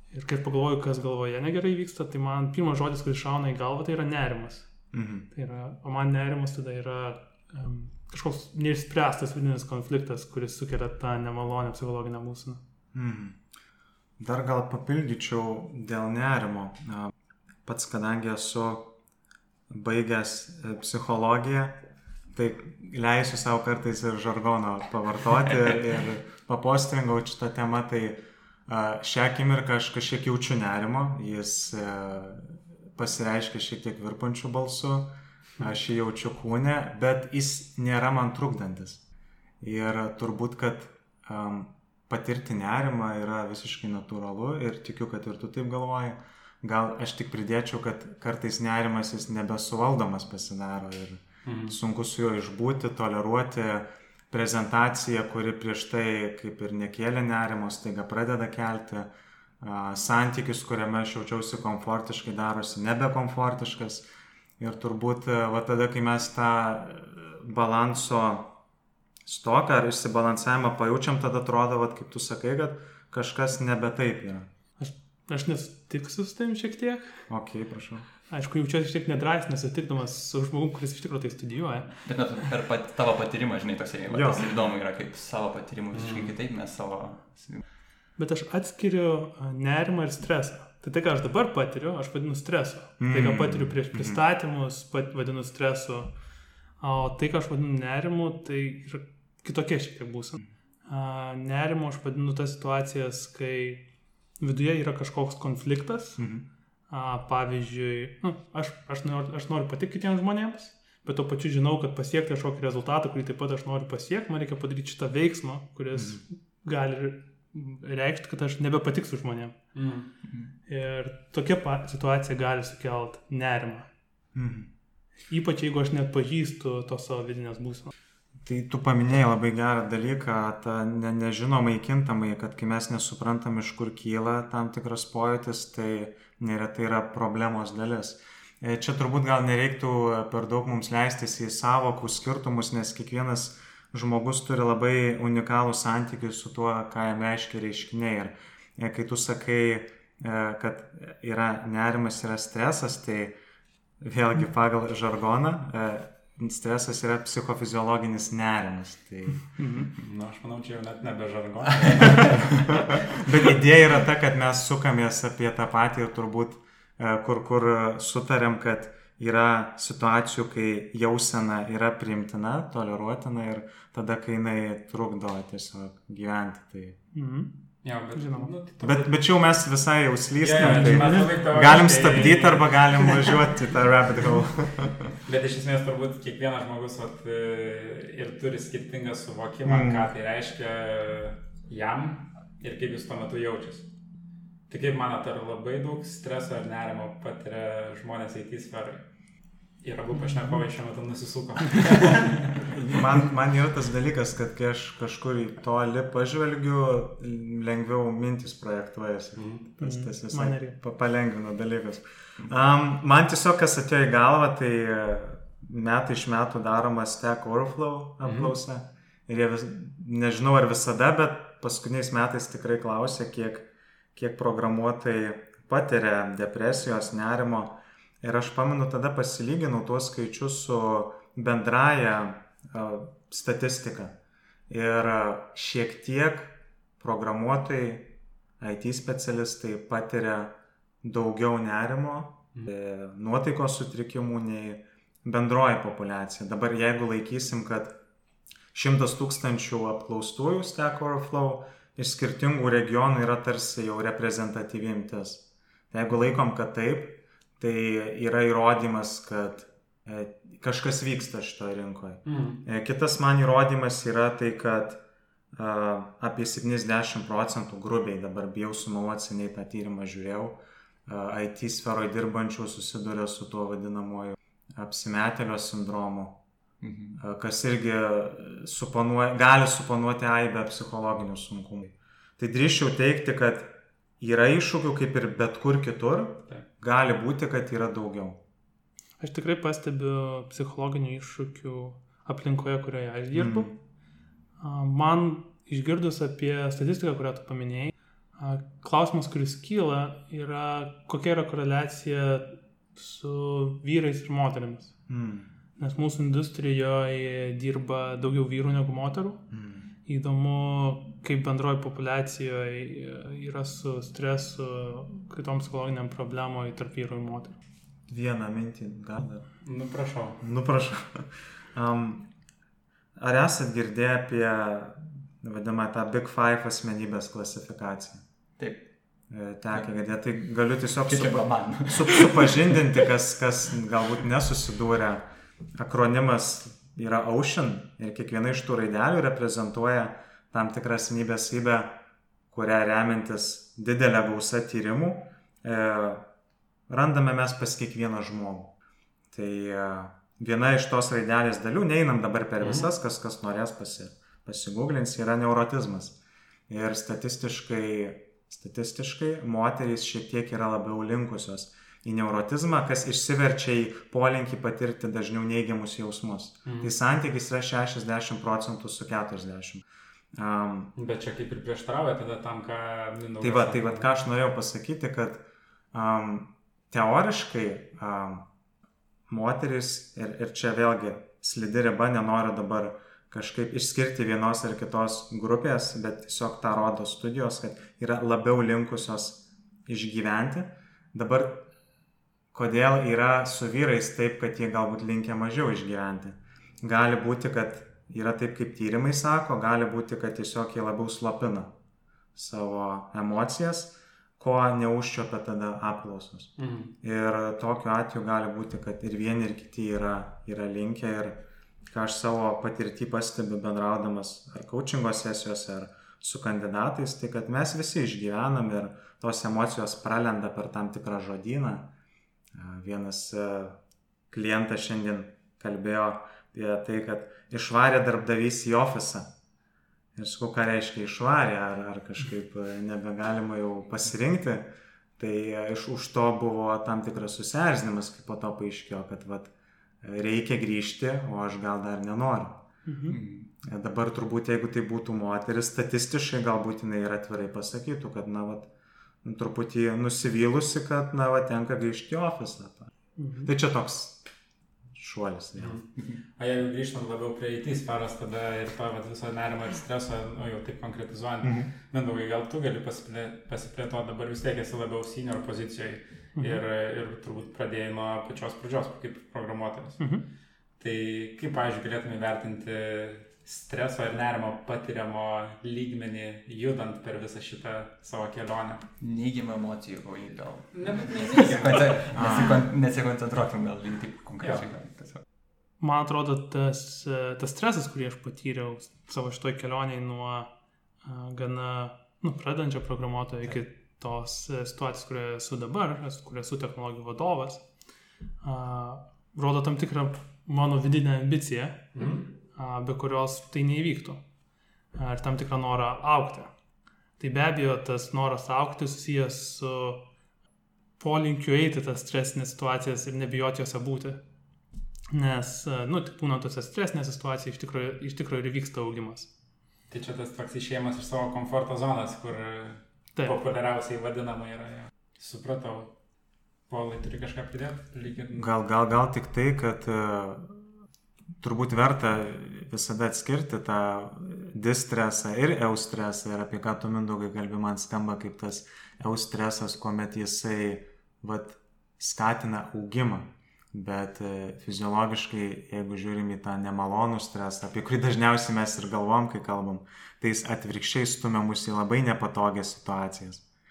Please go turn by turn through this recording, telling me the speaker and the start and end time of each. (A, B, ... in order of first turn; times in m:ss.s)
0:00.1-0:04.7 A
0:04.9-0:05.3 B
0:05.3-0:12.6 A
0:12.9-0:13.4 B
0:14.2-0:17.1 B
0:17.6-0:19.0 B
0:19.7-0:21.8 B
0:22.3-0:39.0 B
0:39.6-0:59.1 B
0:51.4-0:51.8 C
0:59.6-1:04.0 B
1:04.6-1:08.6 B
1:09.3-1:14.5 B
1:14.8-1:17.3 A
1:17.3-1:18.0 B
1:18.3-1:22.0 A
1:22.0-1:27.6 D
1:24.1-1:24.4 B
1:25.9-1:26.3 C
1:28.2-1:36.1 A
1:33.0-1:34.2 B
1:36.8-1:43.8 A
1:44.4-1:46.2 A
1:46.2-1:46.4 B
1:46.9-1:59.6 A
1:55.9-1:56.2 B
1:59.8-2:00.1 C
2:00.7-2:03.9 A
2:04.3-2:04.7 B
2:05.3-2:07.9 A
2:08.4-2:33.3 B
2:34.0-2:39.6 B
2:39.6-2:39.9 A
2:40.0-2:42.8 C
2:41.9-2:42.4 D
2:43.2-2:57.0 B
2:57.1-2:57.5 A
2:57.8-2:59.1 C
2:58.1-2:58.5 A
2:58.8-3:05.0 B
3:00.4-3:03.2 C
3:00.6-3:01.4 A
3:05.2-3:13.9 C
3:09.6-3:10.1 B
3:14.7-3:19.0 C
3:19.8-3:22.8 C
3:20.2-3:20.6 A
3:22.7-3:54.2 B
3:29.4-3:29.6 C
3:29.8-3:30.8 A
3:38.2-3:38.5 C
3:54.7-4:08.0 B
4:08.7-4:25.0 B
4:22.2-4:22.6 C
4:25.5-4:36.4 B
4:36.8-4:37.2 D
4:37.2-4:48.4 B
4:49.2-4:53.7 A
4:53.3-4:53.8 B
4:54.6-5:04.9 A
5:05.1-5:05.5 B
5:05.8-5:09.4 A
5:09.5-5:09.9 B
5:10.1-5:17.6 A
5:18.1-5:19.5 B
5:19.6-5:20.4 C
5:20.4-5:22.3 B
5:23.2-5:28.2 B
5:28.6-5:28.9 D
5:29.3-5:46.3 B
5:31.1-5:33.0 D
5:46.9-5:48.7 B
5:49.3-5:56.2 B
5:52.6-5:52.9 C
5:56.7-6:09.8 B
6:06.7-6:06.9 C
6:10.4-6:10.9 B
6:11.0-6:14.1 C
6:13.4-6:18.5 B
6:19.3-6:31.7 B
6:32.5-6:41.7 B
6:42.4-7:01.9 B
6:46.6-6:46.9 C
7:02.5-7:03.8 B
7:04.3-7:09.3 B
7:10.2-7:19.5 B
7:20.0-7:22.6 B
7:22.8-7:23.2 A
7:23.1-7:23.5 D
7:23.6-7:28.7 B
7:29.2-7:32.9 B
7:33.2-7:33.5 A
7:33.4-7:34.2 B
7:34.9-7:35.8 B
7:35.6-7:35.8 C
7:36.4-7:50.0 C
7:41.4-7:41.7 B
7:46.4-7:46.6 A
7:50.0-7:50.2 A
7:50.8-7:58.8 C
7:59.0-8:05.2 D
8:00.7-8:02.4 C
8:02.1-8:02.6 B
8:04.4-8:04.6 C
8:05.8-8:10.5 A
8:11.0-8:17.6 A
8:18.4-8:22.0 A
8:22.0-8:22.3 C
8:22.5-8:24.2 A
8:25.0-8:26.5 A
8:27.2-8:30.0 A
8:31.0-8:34.2 A
8:35.1-8:39.3 A
8:39.9-8:45.9 C
8:46.7-8:48.5 C
8:48.3-8:50.6 B
8:51.4-9:13.4 B